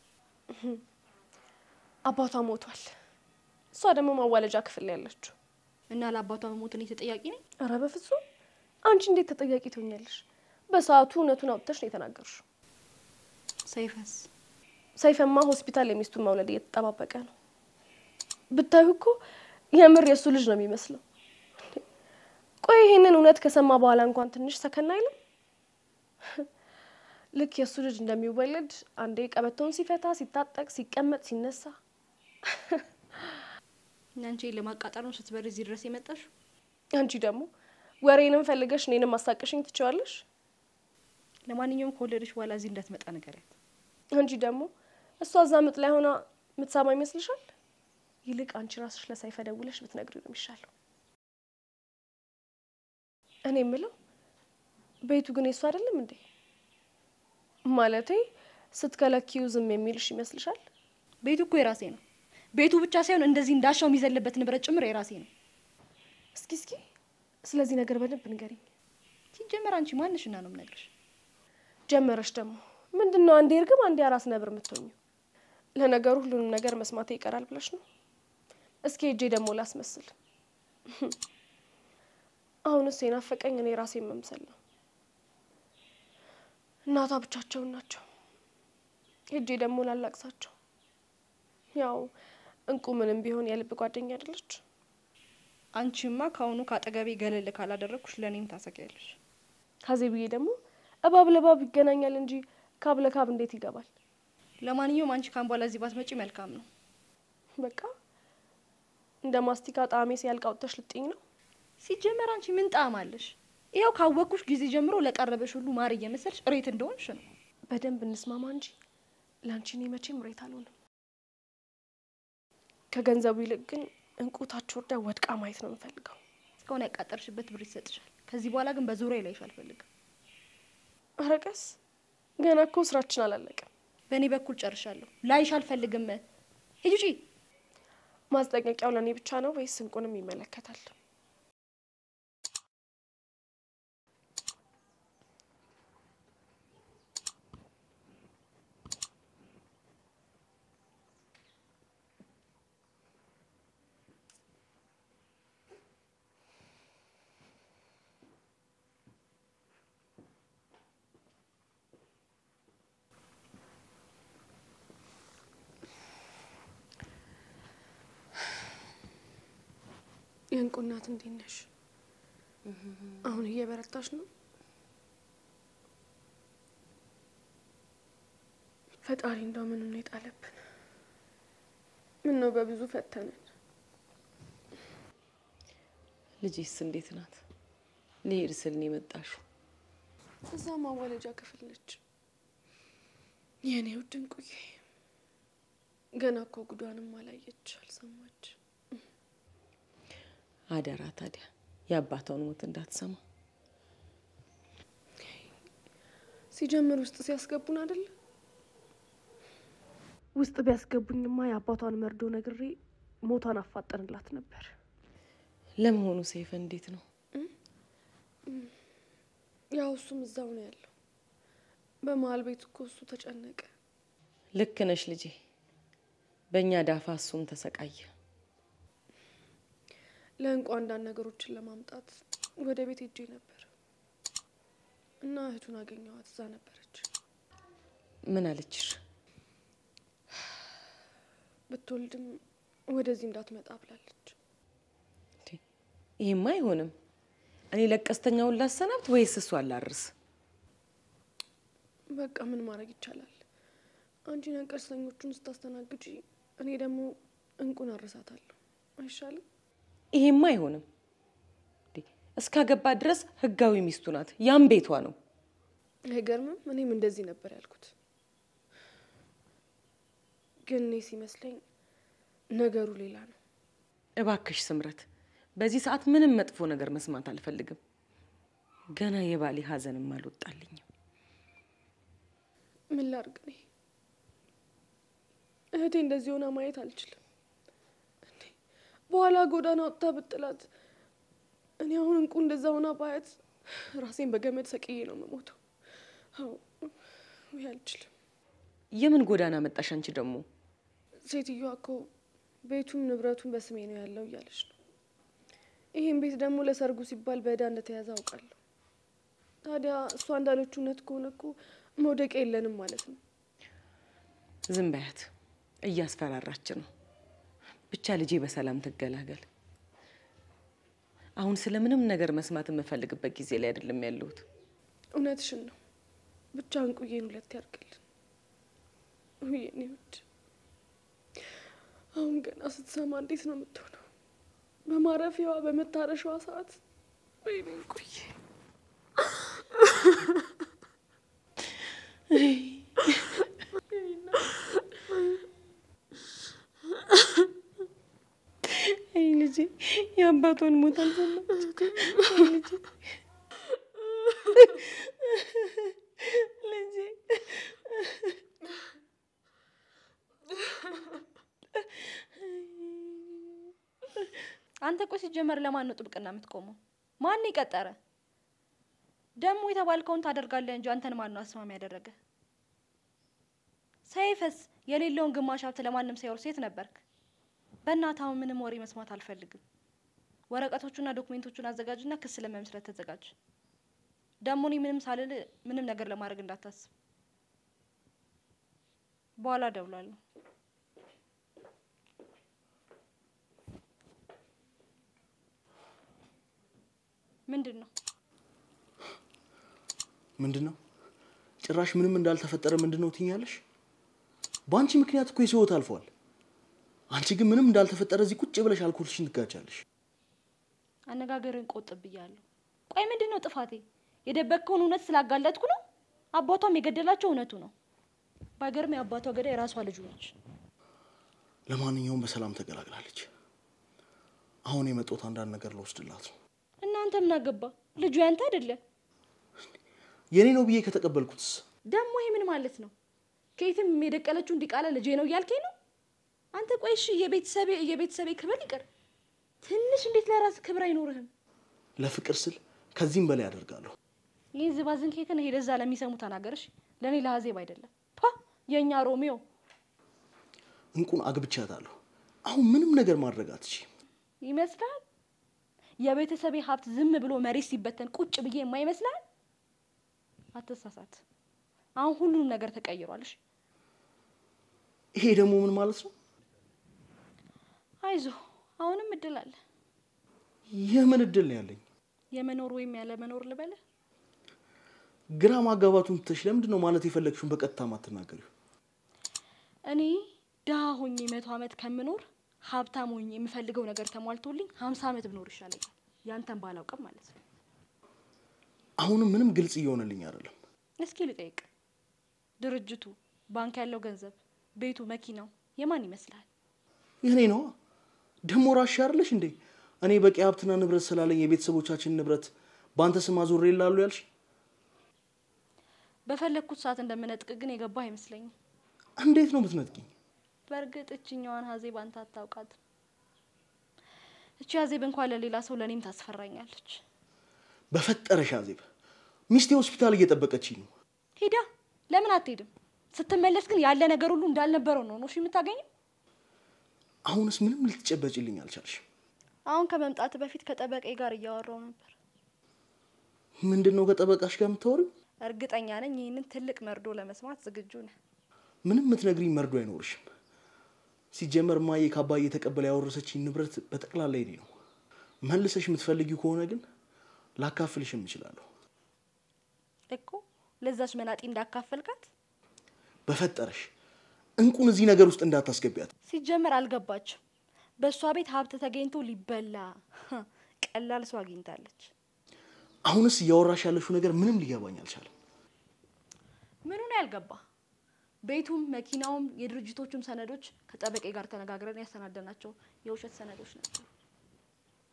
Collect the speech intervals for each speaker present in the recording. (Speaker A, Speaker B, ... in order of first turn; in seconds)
Speaker A: 0.5-0.8, 2.0-3.0, 3.7-5.3, 7.6-8.2, 8.8-12.4, 15.0-17.3, 18.5-19.2, 19.7-21.0, 22.6-25.1, 27.3-31.8, 32.5-32.8, 37.0-37.5, 38.0-40.2, 44.1-47.5, 48.2-50.7, 53.5-53.9, 55.0-56.2, 57.7-60.6, 66.3-66.8, 67.4-68.6, 71.9-75.0, 75.8-77.8, 78.8-80.1, 80.9-81.2, 82.7-84.6, 86.9-88.0, 89.3-90.5, 91.7-92.1, 92.7-94.6, 99.8-103.9, 107.6-107.9, 109.2-111.2, 117.7-118.8, 119.4-120.8, 122.9-126.2, 131.2-131.8, 132.4-133.7, 138.3-140.9, 170.5-171.7, 173.2-174.3, 179.0-180.6, 182.2-183.4, 190.5-192.0, 193.6-194.8, 196.2-198.5, 206.5-208.1, 210.3-214.7, 218.5-218.7, 219.7-220.9, 222.0-223.7, 230.4-233.7, 235.2-237.1, 241.7-244.3, 252.1-253.4, 254.2-259.4, 266.1-267.9, 270.6-271.6, 272.5-273.4, 282.9-283.6, 285.8-287.2, 289.1-290.7, 291.8-295.6, 296.4-296.9, 297.5-298.1, 301.2-302.1, 302.6-304.8, 305.9-308.6, 309.6-313.2, 325.1-325.8, 326.6-328.0, 329.4-330.2, 332.1-334.1, 334.9-336.8, 337.4-338.4, 343.9-344.8, 351.8-352.2
Speaker B: 5.9-7.4, 13.7-14.3, 34.2-36.3, 41.5-43.5, 61.2-62.0, 62.5-65.3, 69.3-70.9, 95.8-99.2, 104.6-106.7, 111.8-117.2, 126.7-129.8, 134.1-136.2, 136.8-137.2, 364.8-368.0, 369.4-372.1, 374.1-377.0, 377.8-379.6, 380.5-383.3, 384.4-386.9, 389.4-390.2, 397.5-397.9, 411.1-415.8, 416.3-417.7, 418.6-420.3, 426.8-428.8, 431.9-432.9, 433.6-435.7, 436.5-438.9, 439.6-441.3, 444.6-449.4, 454.4-455.0, 456.0-459.2, 460.5-461.2, 461.9-463.4, 468.0-469.6, 472.3-473.8, 479.9-487.4, 491.0-491.7, 492.6-496.5, 506.3-508.5, 510.7-512.8, 514.6-517.0, 521.4-525.9, 529.7-532.1, 535.4-538.1, 550.1-552.3, 556.3-557.4, 558.0-562.1, 566.9-567.6, 568.5-574.1
Speaker C: 172.7-173.2, 186.4-187.4, 188.2-189.4, 200.7-203.2, 215.8-217.0, 224.6-225.4, 226.5-228.1, 238.2-239.0, 246.2-246.9, 247.7-250.1, 260.1-260.8, 261.9-265.1, 274.2-275.1, 275.6-277.8, 278.9-280.9, 298.9-300.4, 314.7-315.3, 315.9-316.9, 317.9-319.4, 321.4-324.4, 342.3-343.3, 348.6-353.0, 354.3-358.4, 361.8-363.6
Speaker D: 400.4-400.8, 401.6-403.6, 404.7-406.1, 407.1-409.8, 421.7-423.3, 424.7-426.3, 430.3-431.6, 442.0-443.9, 450.9-453.9, 465.1-466.1, 470.7-471.8, 475.3-478.5, 489.0-490.6, 497.2-497.8, 498.4-504.3, 509.2-510.1, 517.9-518.9, 519.5-520.9, 527.3-529.0, 533.6-535.1, 538.9-540.3, 541.3-544.7, 545.5-546.9, 547.6-548.7, 553.3-553.9, 554.6-556.1, 563.0-565.3